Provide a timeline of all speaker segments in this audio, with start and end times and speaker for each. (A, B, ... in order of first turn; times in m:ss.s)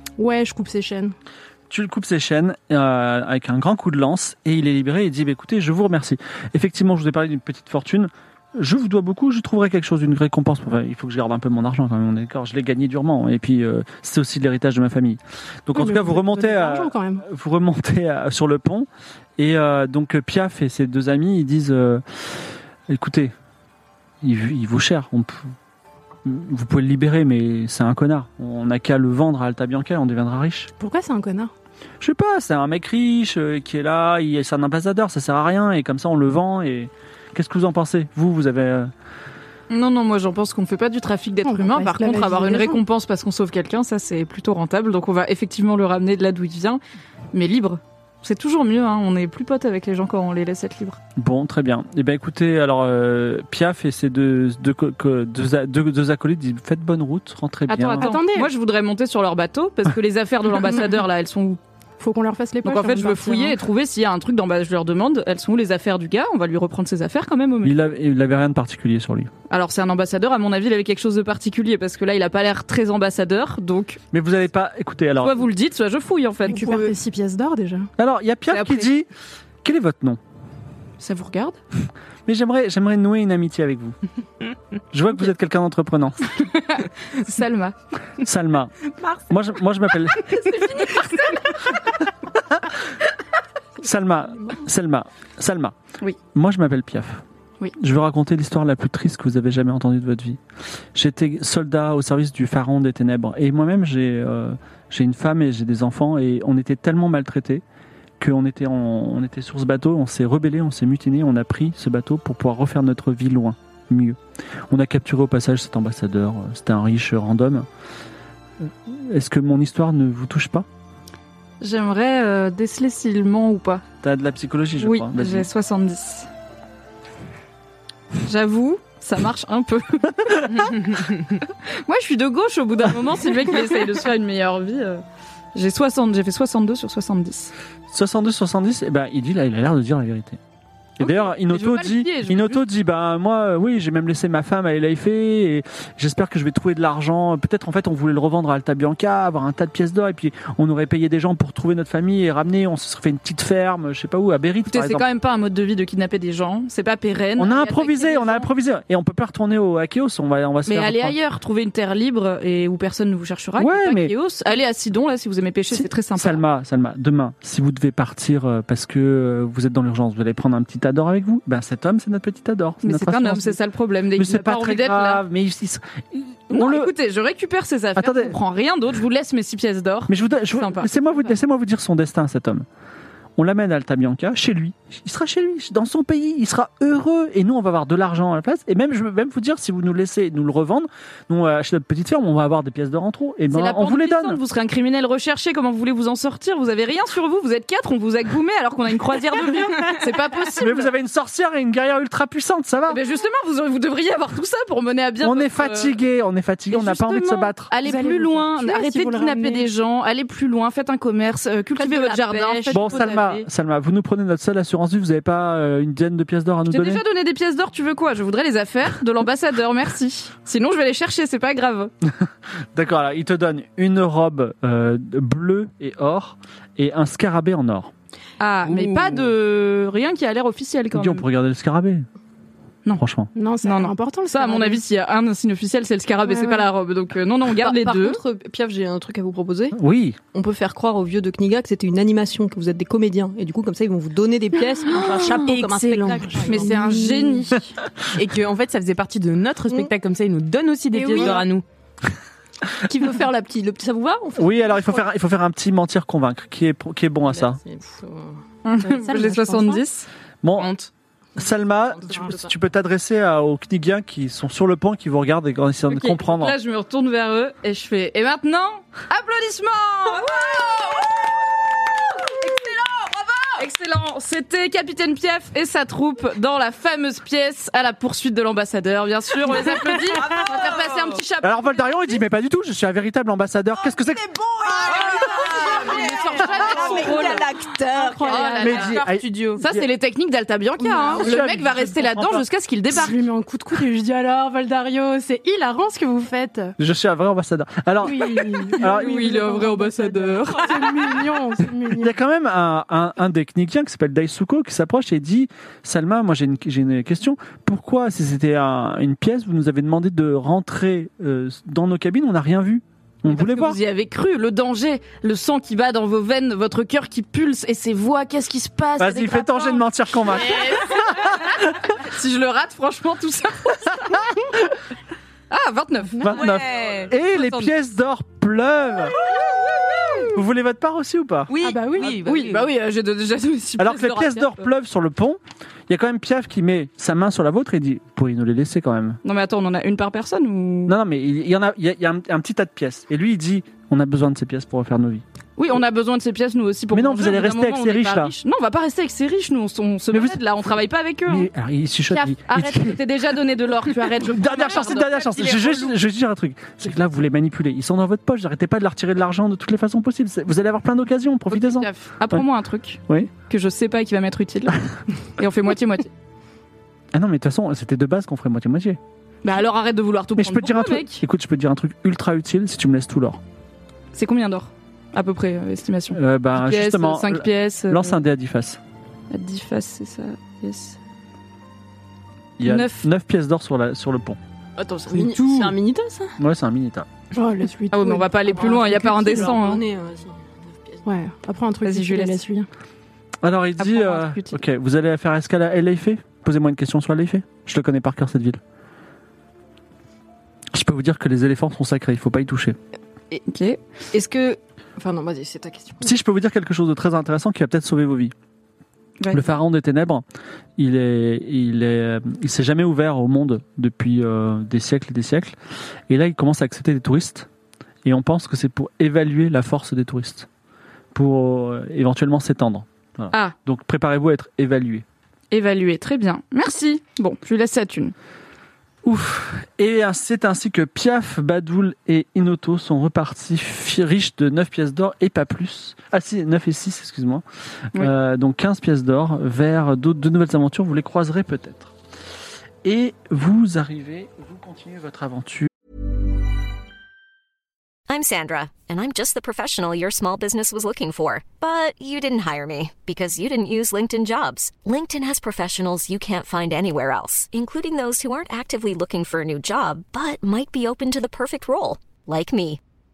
0:00.2-0:01.2 A
0:01.7-0:22.0 B
0:15.7-0:17.2 A
0:22.9-0:23.3 B
0:24.2-0:25.5 B
0:26.2-0:30.7 B
0:30.8-0:31.5 A
0:32.0-0:38.9 B
0:39.7-0:46.8 C
0:41.4-0:42.8 A
0:47.3-0:51.0 C
0:51.2-0:58.1 B
0:57.7-1:01.6 C
0:58.0-0:58.5 A
1:02.0-1:03.6 A
1:02.6-1:07.8 C
1:07.6-1:09.3 B
1:09.5-1:14.0 C
1:14.1-1:15.4 B
1:15.2-1:17.0 C
1:16.4-1:17.9 A
1:18.0-1:19.1 B
1:18.5-1:18.9 C
1:19.6-1:20.2 B
1:21.0-1:21.6 C
1:22.3-1:24.0 B
1:24.9-1:26.2 B
1:26.4-1:27.8 C
1:28.2-1:28.7 B
1:29.3-1:30.9 B
1:33.8-1:35.8 B
1:36.3-1:37.2 B
1:37.8-1:40.4 B
1:41.0-1:47.6 B
1:48.2-1:54.2 B
1:54.7-1:57.7 B
1:58.6-2:00.7 B
2:01.6-2:03.8 C
2:04.0-2:05.5 B
2:04.8-2:06.3 C
2:08.2-2:11.1 C
2:10.3-2:10.6 B
2:11.7-2:15.0 C
2:15.5-2:17.5 C
2:17.9-2:20.4 B
2:21.0-2:35.0 B
2:21.0-2:22.6 C
2:34.7-2:38.5 C
2:37.4-2:41.2 B
2:40.7-2:46.4 C
2:43.6-2:44.1 B
2:45.7-2:53.6 B
2:52.8-2:55.2 C
2:54.2-2:56.9 B
2:56.5-3:01.3 C
2:58.0-2:58.4 B
3:00.1-3:02.7 B
3:03.4-3:14.4 B
3:13.5-3:20.9 C
3:20.6-3:23.0 B
3:22.9-3:26.0 C
3:25.2-3:27.7 B
3:26.7-3:33.4 C
3:27.8-3:29.7 A
3:32.0-3:32.8 D
3:32.6-3:33.0 E
3:32.7-3:37.0 B
3:36.7-3:41.9 C
3:42.1-3:47.9 B
3:48.4-3:51.2 C
3:48.7-3:49.1 E
3:50.9-3:52.1 B
3:53.0-3:53.3 B
3:53.4-3:54.8 A
3:53.6-3:58.2 C
3:56.3-3:56.7 A
3:57.6-3:59.8 E
3:59.8-4:00.2 B
4:00.3-4:06.9 E
4:04.9-4:06.7 D
4:06.1-4:07.5 A
4:06.4-4:07.7 C
4:08.1-4:11.6 D
4:10.9-4:11.4 A
4:11.0-4:11.5 E
4:12.8-4:15.0 E
4:14.4-4:17.6 B
4:17.2-4:18.4 E
4:18.6-4:20.1 C
4:18.8-4:19.8 A
4:20.4-4:20.7 B
4:20.6-4:20.9 D
4:21.4-4:26.6 B
4:21.4-4:22.5 E
4:25.9-4:31.3 C
4:32.8-4:33.1 E
4:33.6-4:42.2 C
4:40.2-4:41.2 E
4:41.4-4:44.3 B
4:44.0-4:48.9 E
4:44.8-4:49.6 D
4:44.9-4:47.5 C
4:48.2-4:49.0 C
4:48.6-4:49.8 B
4:49.6-4:53.2 C
4:50.8-4:51.2 A
4:51.2-4:52.4 B
4:52.9-4:56.8 A
4:56.8-4:59.3 B
4:58.0-5:02.1 A
4:58.8-5:01.2 C
5:01.9-5:13.8 B
5:13.2-5:24.3 C
5:19.0-5:21.6 B
5:25.5-5:27.7 C
5:26.2-5:29.1 B
5:26.4-5:27.1 D
5:30.3-5:31.5 B
5:31.5-5:32.7 D
5:31.6-5:32.2 A
5:32.0-5:34.7 C
5:33.8-5:39.2 B
5:39.2-5:41.0 C
5:40.9-5:45.2 B
5:45.6-5:51.5 C
5:46.9-5:48.4 B
5:50.1-5:50.4 B
5:51.3-5:53.0 B
5:52.1-5:55.7 C
5:54.1-6:02.5 B
6:01.5-6:06.1 C
6:07.1-6:09.0 B
6:09.4-6:11.2 C
6:10.4-6:13.4 B
6:14.1-6:18.2 C
6:16.1-6:18.8 B
6:19.3-6:21.0 C
6:22.6-6:24.4 B
6:22.6-6:23.1 C
6:24.8-6:26.4 E
6:25.1-6:25.7 D
6:26.4-6:27.1 B
6:27.3-6:29.5 A
6:27.9-6:29.8 C
6:28.4-6:31.0 E
6:31.0-6:32.7 A
6:31.8-6:32.4 C
6:33.4-6:38.6 B
6:33.8-6:34.6 C
6:40.7-6:42.8 B
6:43.5-6:43.8 C
6:44.1-6:46.1 E
6:46.0-6:48.3 B
6:49.2-6:49.6 C
6:49.3-6:50.2 B
6:50.8-6:55.6 B
6:56.1-6:57.5 B
6:58.0-7:00.5 B
7:01.1-7:05.0 B
7:05.5-7:08.2 C
7:09.0-7:21.9 B
7:22.8-7:25.7 B
7:28.1-7:42.8 F